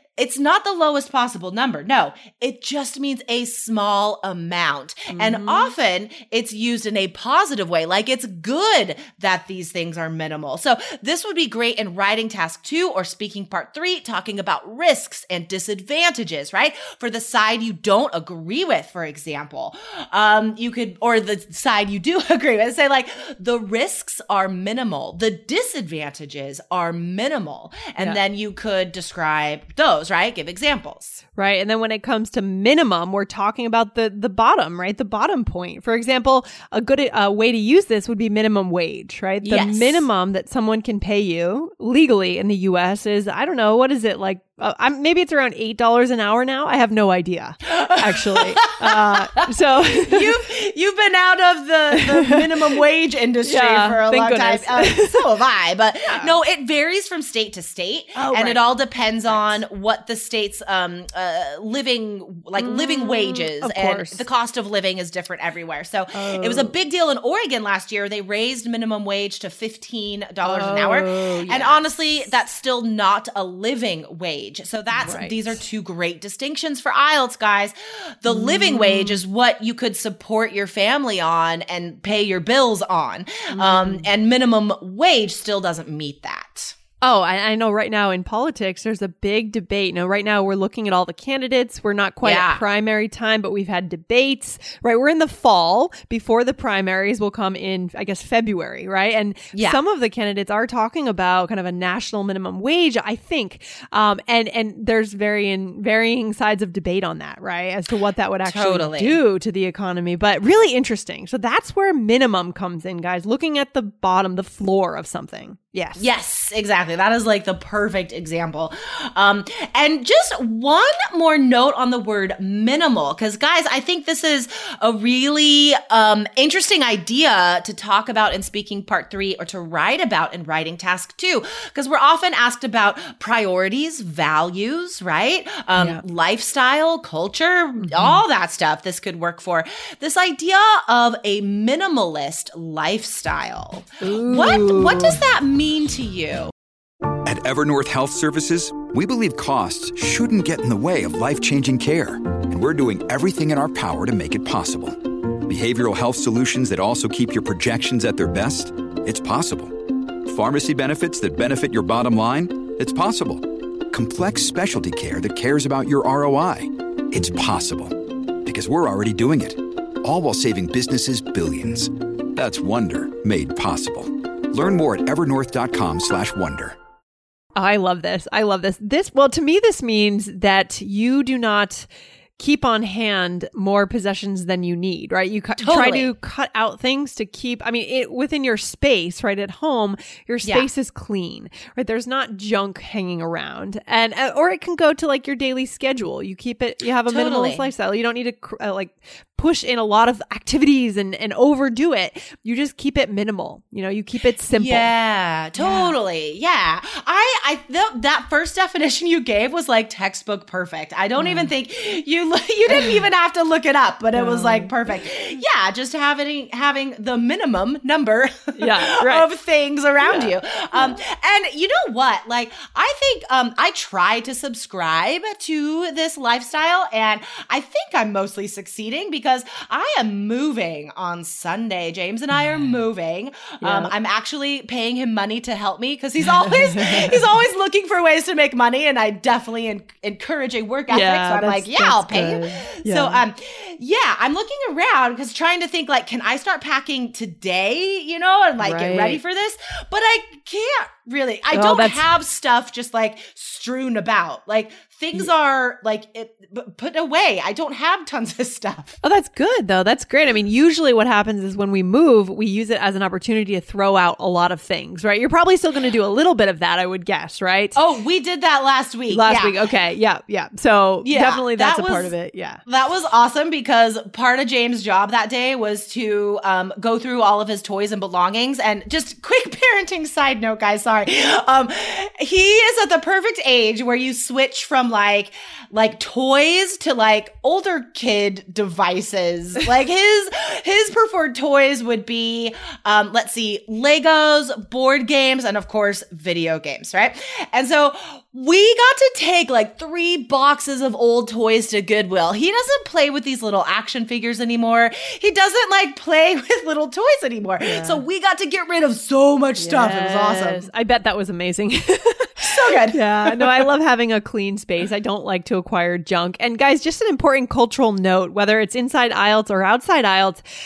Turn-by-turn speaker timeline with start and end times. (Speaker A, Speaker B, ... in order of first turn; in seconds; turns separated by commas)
Speaker A: 0.2-31.2, Speaker B: 5.1-5.7, Speaker B: 31.4-50.2, Speaker A: 39.4-40.0, Speaker A: 47.8-49.2, Speaker A: 50.0-86.8, Speaker B: 52.0-52.4, Speaker B: 53.4-55.3, Speaker B: 56.0-56.4, Speaker B: 58.1-58.7, Speaker B: 59.3-59.6, Speaker B: 62.6-64.2, Speaker B: 66.1-66.7, Speaker B: 70.4-71.9, Speaker B: 74.9-75.6, Speaker B: 78.2-79.2, Speaker B: 83.5-84.1, Speaker B: 87.0-116.0, Speaker A: 92.2-92.6, Speaker A: 99.5-99.8, Speaker A: 108.5-109.2, Speaker A: 116.0-146.5, Speaker B: 135.8-136.0, Speaker B: 137.8-138.2, Speaker B: 144.0-145.2, Speaker C: 147.2-176.8, Speaker B: 177.6-204.9, Speaker A: 185.6-186.1, Speaker A: 190.4-190.7, Speaker A: 197.1-197.7, Speaker A: 204.5-259.0, Speaker B: 205.5-205.9, Speaker B: 211.2-211.5, Speaker B: 214.1-214.7, Speaker B: 218.6-219.3, Speaker B: 220.0-220.9, Speaker B: 233.6-233.9, Speaker B: 236.2-237.4, Speaker B: 240.9-243.2, Speaker B: 248.6-249.2, Speaker B: 251.5-252.1, Speaker B: 259.0-267.8, Speaker A: 267.7-269.5, Speaker B: 269.1-272.6, Speaker A: 271.0-272.1, Speaker A: 272.7-310.7, Speaker B: 307.6-308.0, Speaker B: 309.6-320.4, Speaker A: 312.4-313.6